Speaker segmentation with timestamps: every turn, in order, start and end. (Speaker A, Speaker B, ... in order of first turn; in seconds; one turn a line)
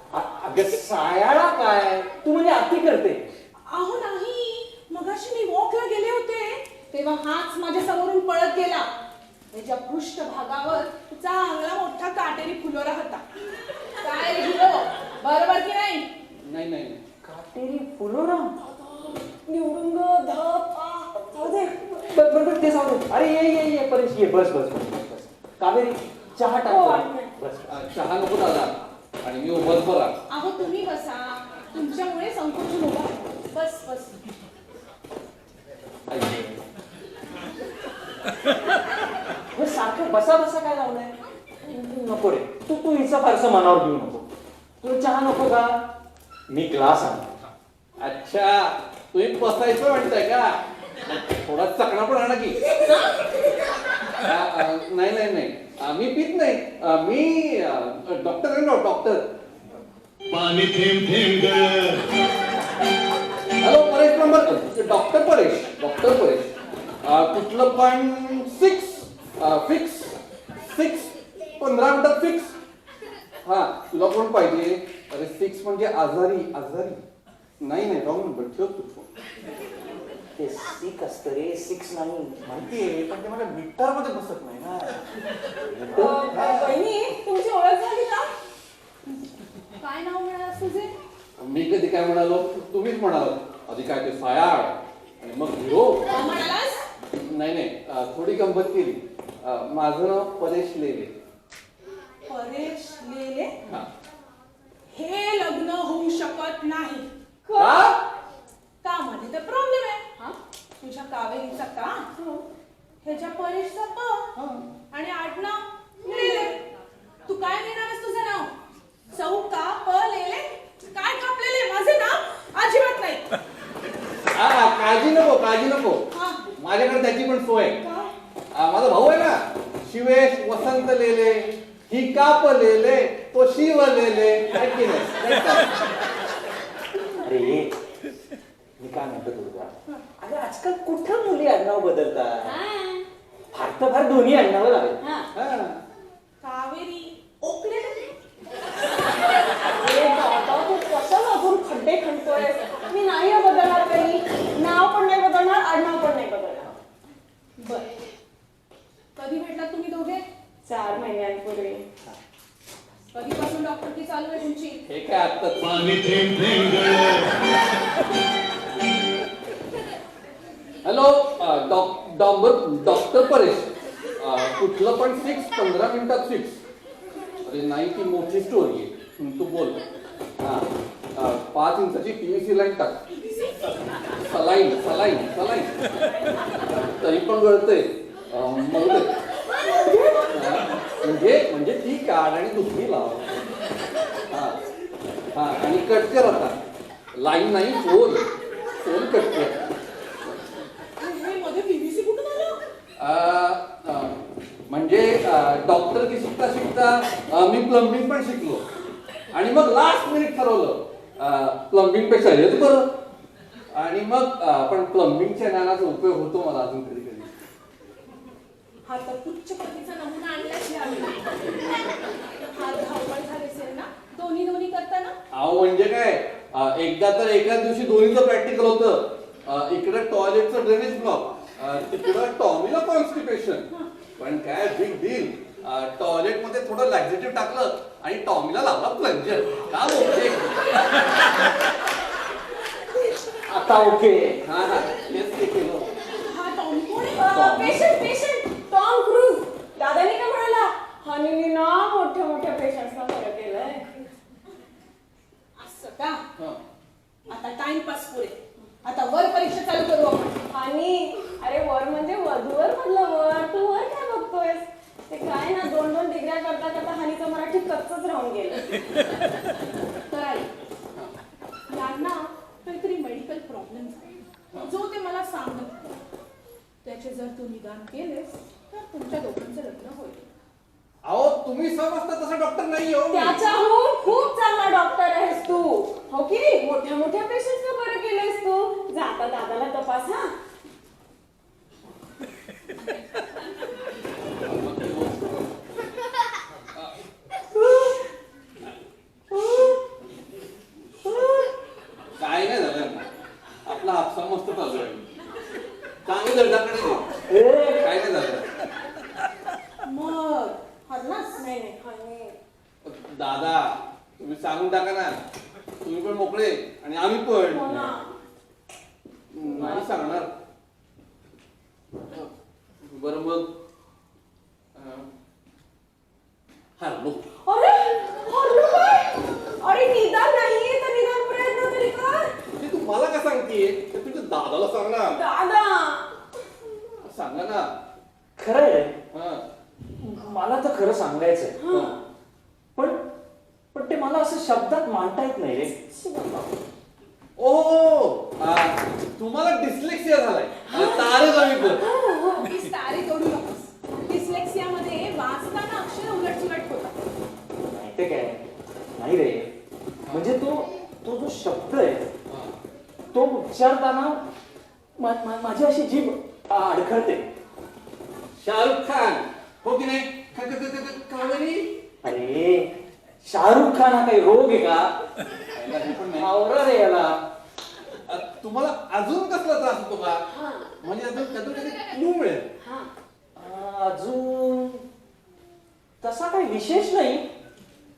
Speaker A: 0.1-3.3
Speaker B: 3.6-8.9
Speaker B: 9.5-13.2
Speaker B: 14.0-16.1
Speaker C: 16.4-17.0
Speaker A: 17.2-18.6
Speaker D: 18.6-22.1
Speaker A: 22.1-27.7
Speaker D: 26.7-27.3
Speaker C: 27.7-28.7
Speaker C: 29.2-30.1
Speaker B: 30.3-34.2
Speaker A: 36.1-36.6
Speaker A: 39.5-41.1
Speaker A: 41.7-44.3
Speaker A: 44.8-45.9
Speaker A: 46.5-47.3
Speaker C: 48.0-52.7
Speaker C: 54.2-59.3
Speaker E: 60.3-62.1
Speaker C: 63.6-66.5
Speaker C: 67.0-72.5
Speaker C: 73.5-77.0
Speaker C: 77.6-79.1
Speaker A: 80.4-82.7
Speaker C: 82.6-85.1
Speaker A: 85.7-86.4
Speaker D: 85.9-88.3
Speaker C: 86.1-86.8
Speaker B: 89.8-90.9
Speaker C: 91.4-96.1
Speaker B: 96.1-96.9
Speaker C: 97.1-101.1
Speaker B: 102.3-103.6
Speaker B: 104.9-107.1
Speaker D: 107.5-108.0
Speaker C: 107.6-108.0
Speaker B: 108.8-110.0
Speaker B: 110.8-112.1
Speaker D: 112.2-112.5
Speaker B: 113.0-114.3
Speaker C: 114.4-114.6
Speaker B: 114.9-116.6
Speaker D: 116.0-116.5
Speaker B: 117.3-118.5
Speaker B: 119.1-123.2
Speaker C: 124.3-127.8
Speaker B: 126.1-126.4
Speaker C: 128.5-135.8
Speaker A: 137.2-137.7
Speaker A: 138.8-142.6
Speaker D: 142.4-143.1
Speaker A: 143.5-145.0
Speaker D: 145.0-145.3
Speaker C: 145.3-145.8
Speaker B: 146.4-148.2
Speaker D: 149.6-156.7
Speaker B: 157.6-158.0
Speaker B: 159.2-160.2
Speaker D: 160.7-161.9
Speaker B: 163.1-164.8
Speaker C: 164.8-165.7
Speaker E: 165.6-167.3
Speaker C: 170.8-176.6
Speaker C: 177.4-179.8
Speaker C: 180.4-183.0
Speaker C: 184.2-185.7
Speaker C: 186.8-189.1
Speaker D: 189.6-190.3
Speaker C: 190.3-193.3
Speaker C: 194.3-194.6
Speaker C: 195.3-196.6
Speaker C: 197.2-199.6
Speaker C: 200.2-200.5
Speaker B: 201.0-202.6
Speaker C: 203.0-204.2
Speaker C: 204.7-208.7
Speaker C: 209.3-212.9
Speaker C: 213.7-217.3
Speaker B: 218.9-225.2
Speaker C: 225.3-240.9
Speaker A: 243.5-244.4
Speaker C: 244.4-245.9
Speaker B: 246.2-248.0
Speaker D: 247.3-253.8
Speaker C: 247.3-247.9
Speaker B: 255.6-256.2
Speaker B: 257.3-260.4
Speaker D: 260.5-268.7
Speaker B: 270.1-270.5
Speaker B: 271.7-274.1
Speaker B: 274.6-276.0
Speaker B: 276.8-280.3
Speaker C: 281.0-283.4
Speaker D: 283.1-290.3
Speaker B: 283.4-284.1
Speaker C: 294.4-295.5
Speaker C: 302.2-303.1
Speaker C: 303.6-305.1
Speaker C: 306.1-307.2
Speaker A: 307.2-307.9
Speaker C: 307.8-308.5
Speaker B: 309.8-311.4
Speaker D: 311.4-312.3
Speaker C: 312.8-315.2
Speaker C: 315.8-317.8
Speaker D: 317.5-318.1
Speaker C: 319.3-320.3
Speaker D: 319.5-319.9
Speaker C: 322.8-323.5
Speaker C: 324.8-325.1
Speaker C: 326.8-327.2
Speaker D: 327.4-332.3
Speaker C: 332.6-335.2
Speaker D: 335.1-336.2
Speaker C: 337.0-337.7
Speaker A: 338.4-339.0
Speaker C: 339.1-339.4
Speaker A: 340.0-341.6
Speaker D: 341.6-342.0
Speaker A: 342.8-343.0
Speaker A: 343.7-345.7
Speaker D: 345.9-346.5
Speaker C: 347.4-351.8
Speaker D: 350.7-352.5
Speaker B: 352.4-356.9
Speaker A: 357.7-358.4
Speaker A: 359.0-359.6
Speaker C: 360.0-360.3
Speaker A: 360.1-362.1
Speaker A: 363.1-364.2
Speaker A: 365.0-367.3
Speaker C: 368.4-371.7
Speaker A: 372.0-374.9
Speaker C: 375.6-376.3
Speaker A: 376.1-377.2
Speaker C: 378.1-380.2
Speaker D: 380.3-380.7
Speaker C: 380.8-382.5
Speaker D: 382.6-382.9
Speaker A: 383.4-384.8
Speaker A: 386.0-387.3